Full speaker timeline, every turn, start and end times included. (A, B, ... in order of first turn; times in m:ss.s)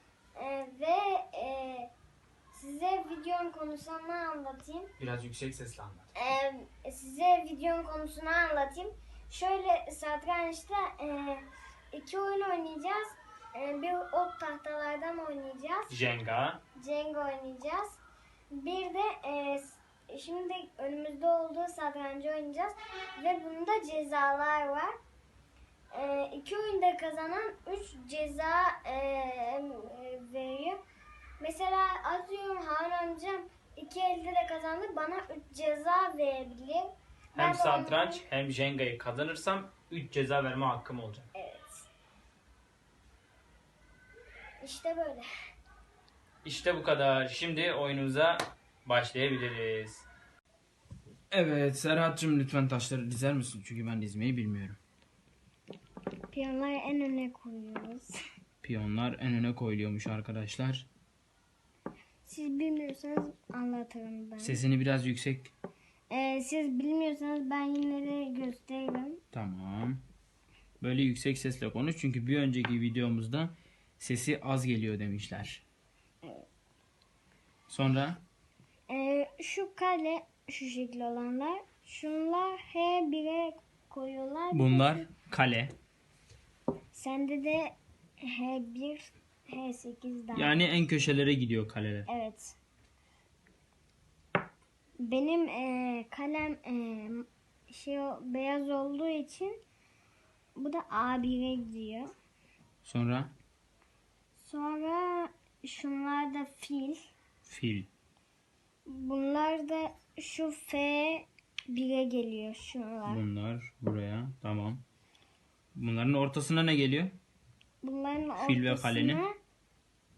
0:00.4-0:01.9 A
0:02.5-0:04.9 A
0:05.0-0:06.1 B
0:06.1-0:15.9 A
0:15.9-0:16.6 B
0:16.8-0:18.0 A
0:18.5-0:24.9 A
0:25.9-0:30.8 A
0:31.4-0:38.2 A
0:37.3-0:41.3 B
0:41.3-0:41.9 A
0:44.6-0:45.3 A
0:46.4-0:50.0 B
0:51.3-0:54.8 B
0:56.3-0:58.1 A
0:58.6-1:00.9 B
1:02.2-1:04.6 A
1:04.4-1:05.5 B
1:06.1-1:09.2 A
1:09.3-1:10.0 B
1:10.8-1:15.6 B
1:17.7-1:18.2 B
1:18.9-1:25.1 A
1:24.5-1:25.7 B
1:26.9-1:30.7 A
1:30.3-1:32.1 B
1:32.1-1:32.6 A
1:35.0-1:39.5 A
1:40.6-1:42.1 A
1:42.8-1:43.3 B
1:44.4-1:47.0 A
1:47.4-1:47.9 B
1:48.8-1:53.2 A
1:53.0-1:54.8 B
1:55.7-1:57.2 B
1:57.8-1:59.4 A
1:58.4-1:59.2 B